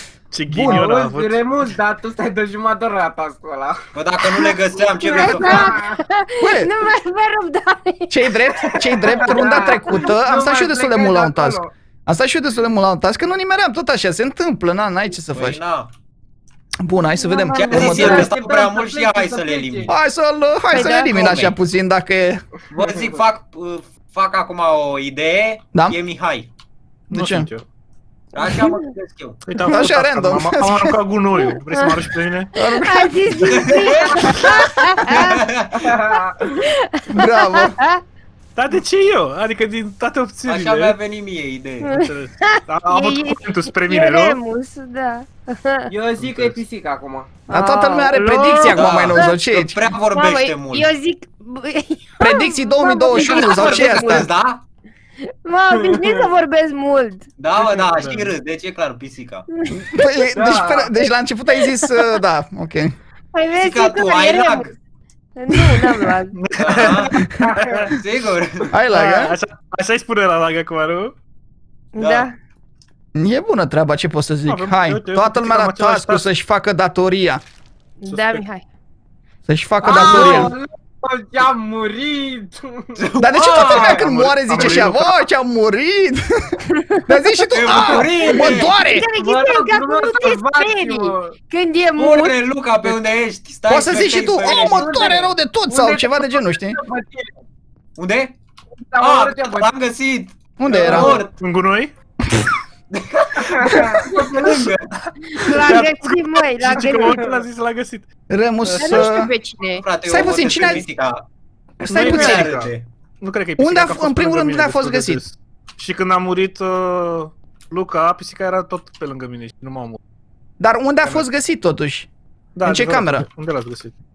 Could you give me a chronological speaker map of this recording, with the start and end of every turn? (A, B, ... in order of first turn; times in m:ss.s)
0:00.3-0:01.7 A
0:00.5-0:00.8 B
0:00.6-0:03.8 C
0:03.9-0:05.7 D
0:04.8-0:08.4 E
0:05.1-0:06.0 C
0:06.4-0:06.7 B
0:08.1-0:15.6 B
0:08.8-0:11.7 C
0:09.0-0:10.1 E
0:15.3-0:15.9 D
0:16.8-0:18.3 B
0:17.1-0:18.3 E
0:17.5-0:19.9 D
0:17.7-0:19.9 C
0:19.9-0:22.4 B
0:20.7-0:21.4 E
0:20.8-0:21.6 D
0:22.7-0:26.5 D
0:22.8-0:23.1 C
0:27.1-0:27.6 A
0:27.1-0:27.5 B
0:28.3-0:29.4 D
0:28.4-0:28.8 E
0:29.4-0:32.5 A
0:29.6-0:31.0 B
0:31.7-0:35.4 E
0:32.5-0:33.6 B
0:33.4-0:34.5 D
0:35.0-0:35.9 D
0:35.8-0:36.6 C
0:36.7-0:38.0 E
0:37.1-0:37.8 B
0:38.6-0:40.9 A
0:40.5-0:41.9 D
0:41.8-0:45.9 E
0:41.9-0:44.4 A
0:45.9-0:47.3 C
0:46.2-0:46.6 A
0:47.5-0:49.3 E
0:47.5-0:49.8 B
0:48.7-0:50.9 D
0:50.1-0:54.2 E
0:52.2-0:54.3 B
0:53.1-0:54.6 D
0:55.4-0:57.3 E
0:55.7-0:56.3 C
0:57.4-0:59.4 D
0:57.6-0:58.3 A
0:59.5-1:00.0 E
0:59.7-1:02.9 B
1:00.3-1:00.9 C
1:01.8-1:02.1 E
1:03.3-1:04.7 E
1:03.6-1:04.7 D
1:05.4-1:06.3 E
1:06.3-1:08.0 A
1:06.6-1:07.1 D
1:07.4-1:07.9 C
1:07.9-1:08.7 D
1:08.7-1:09.3 B
1:08.9-1:11.1 A
1:11.9-1:12.3 E
1:12.0-1:12.3 D
1:13.2-1:17.4 B
1:14.4-1:16.2 A
1:18.0-1:18.6 E
1:18.1-1:18.4 A
1:19.4-1:20.6 B
1:19.8-1:23.0 C
1:19.8-1:20.5 D
1:23.0-1:24.9 D
1:23.2-1:26.4 B
1:23.6-1:23.9 C
1:24.3-1:25.3 A
1:26.8-1:32.4 E
1:27.0-1:29.0 B
1:27.5-1:28.8 D
1:28.9-1:31.3 C
1:32.0-1:35.0 D
1:33.7-1:36.8 B
1:34.4-1:37.3 C
1:38.0-1:38.3 D
1:38.9-1:39.7 C
1:39.0-1:41.3 D
1:40.6-1:41.2 B
1:40.8-1:41.3 C
1:41.3-1:41.9 A
1:42.9-1:44.9 D
1:43.4-1:44.3 C
1:45.2-1:47.2 E
1:45.4-1:48.1 A
1:47.1-1:47.4 C
1:48.3-1:49.3 B
1:48.6-1:49.2 A
1:48.8-1:49.8 E
1:49.8-1:51.2 D
1:50.0-1:50.9 B
1:51.8-1:52.5 B
1:51.9-2:00.0 A
1:51.9-1:52.9 D
1:53.6-1:55.2 B
2:00.6-2:02.1 B
2:02.6-2:03.9 A
2:02.6-2:03.2 B